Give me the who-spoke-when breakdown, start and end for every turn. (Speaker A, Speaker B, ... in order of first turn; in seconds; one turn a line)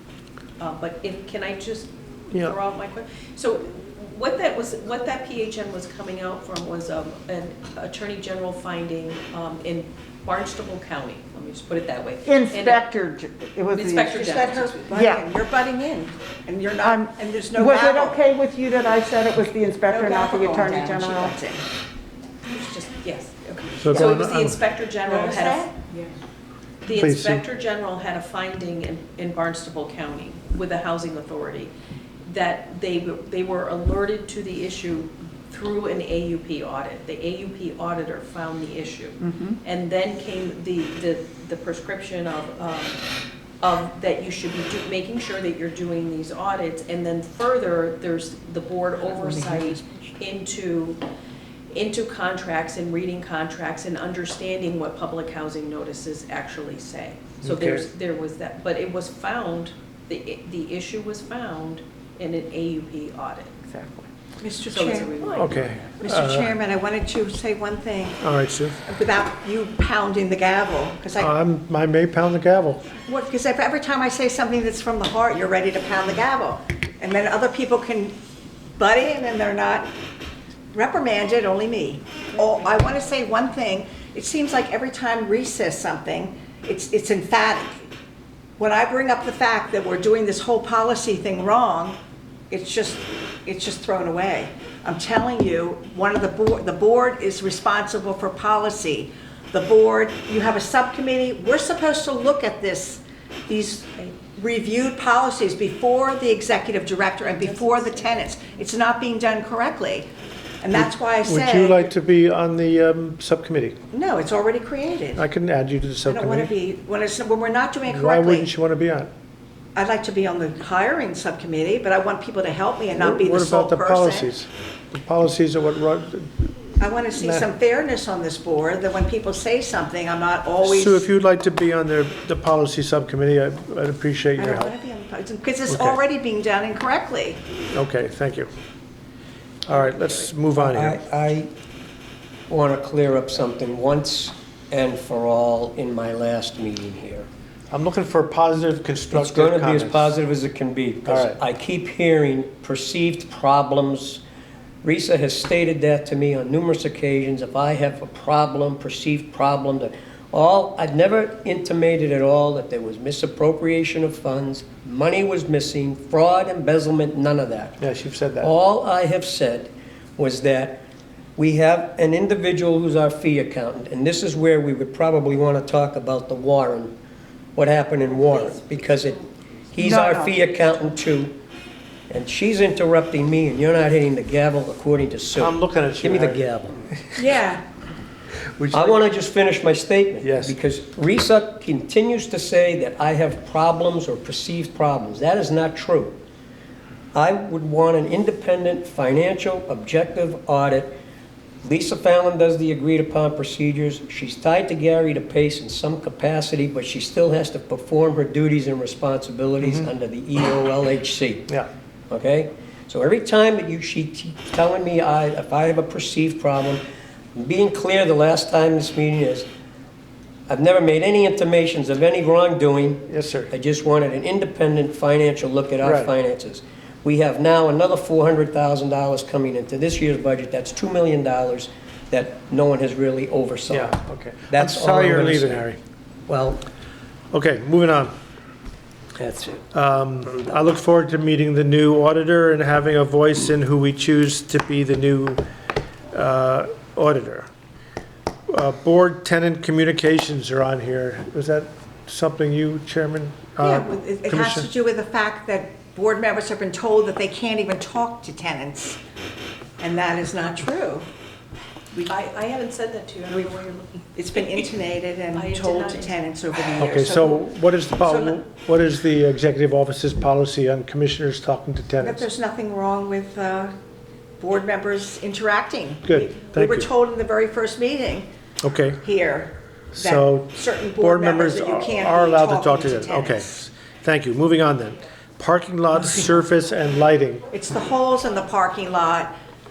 Speaker A: 0.6-12.8
Speaker B: 2.3-2.5
Speaker C: 12.2-14.2
Speaker A: 13.7-15.0
Speaker D: 14.1-18.2
Speaker C: 14.9-15.3
Speaker C: 16.8-21.4
Speaker D: 19.9-21.6
Speaker A: 22.4-25.7
Speaker B: 23.8-24.6
Speaker D: 25.1-25.9
Speaker A: 26.8-31.7
Speaker B: 26.9-27.4
Speaker A: 32.2-43.0
Speaker A: 43.6-51.0
Speaker A: 51.7-63.8
Speaker B: 57.4-57.8
Speaker C: 63.7-64.0
Speaker D: 64.4-65.1
Speaker A: 64.6-65.8
Speaker B: 65.3-66.5
Speaker D: 66.0-68.2
Speaker B: 68.2-68.8
Speaker D: 68.8-71.3
Speaker B: 71.2-72.9
Speaker D: 73.0-78.2
Speaker D: 78.8-79.9
Speaker D: 80.7-87.9
Speaker D: 88.6-92.0
Speaker D: 92.5-110.1
Speaker A: 107.3-108.2
Speaker D: 110.6-111.9
Speaker B: 110.7-113.8
Speaker D: 113.9-115.2
Speaker B: 115.1-116.5
Speaker D: 116.1-118.5
Speaker B: 117.9-119.1
Speaker D: 119.7-124.3
Speaker B: 123.0-126.5
Speaker D: 126.8-131.0
Speaker B: 127.1-127.5
Speaker B: 130.6-134.7
Speaker D: 134.4-137.4
Speaker B: 135.7-136.0
Speaker B: 137.7-138.5
Speaker B: 139.7-141.0
Speaker E: 140.5-141.5
Speaker E: 142.5-147.3
Speaker B: 147.7-150.1
Speaker E: 149.1-154.2
Speaker B: 151.0-151.4
Speaker E: 154.8-167.8
Speaker B: 167.8-168.5
Speaker E: 168.4-170.8
Speaker E: 171.3-176.9
Speaker E: 177.6-179.2
Speaker E: 179.7-181.3
Speaker C: 179.8-180.4
Speaker E: 182.1-186.8
Speaker B: 185.4-187.3
Speaker D: 187.2-187.6
Speaker B: 188.5-189.0
Speaker E: 188.7-196.2
Speaker B: 190.2-190.6
Speaker E: 197.1-200.9
Speaker E: 201.6-211.5
Speaker B: 209.6-209.9
Speaker E: 212.1-216.8
Speaker E: 217.3-219.4
Speaker E: 220.5-234.0
Speaker B: 223.1-223.5
Speaker B: 225.8-226.1
Speaker B: 233.7-235.8
Speaker E: 234.5-235.6
Speaker E: 236.3-236.6
Speaker B: 237.3-238.1
Speaker E: 239.2-239.6
Speaker B: 239.7-245.4
Speaker B: 246.1-247.5
Speaker B: 248.5-254.7
Speaker D: 253.6-259.0
Speaker D: 259.8-261.1
Speaker A: 262.1-264.7
Speaker D: 264.1-267.5
Speaker A: 265.3-266.2
Speaker B: 266.8-272.2
Speaker D: 268.0-268.4
Speaker D: 272.0-273.7
Speaker D: 274.4-278.3
Speaker B: 276.0-276.9
Speaker B: 278.6-279.0
Speaker D: 279.0-283.4
Speaker B: 279.9-287.5
Speaker D: 287.5-289.3